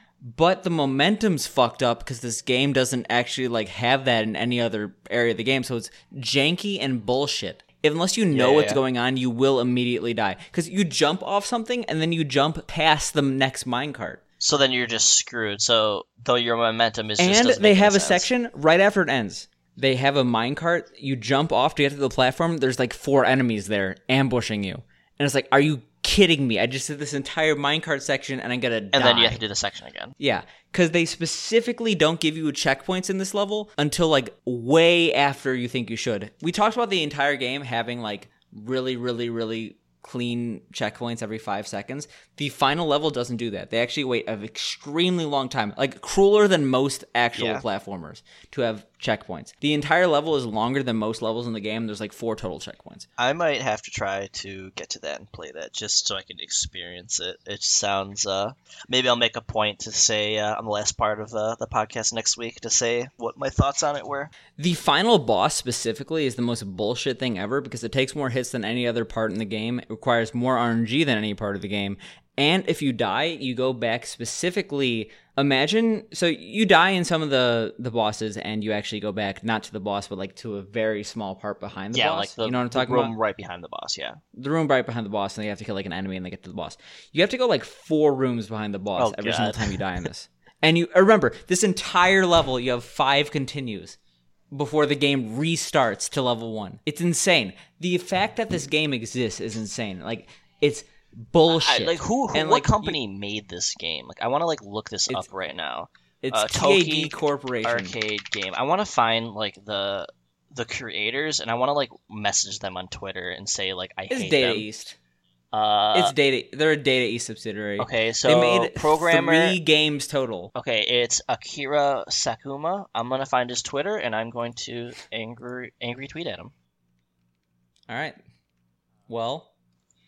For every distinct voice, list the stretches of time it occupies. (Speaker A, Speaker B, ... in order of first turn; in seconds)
Speaker A: 0.2-14.2, 17.2-29.4, 30.2-53.1, 64.6-83.1, 84.3-94.0, 94.5-103.0, 106.2-107.9, 114.1-115.0, 115.9-120.5, 127.9-128.2, 129.1-129.5
Speaker B: 8.3-8.8, 14.4-18.3, 28.9-30.1, 47.4-47.6, 53.2-64.3, 81.9-84.2, 89.0-89.8, 101.5-114.7, 115.5-116.1, 117.8-119.6, 120.5-126.5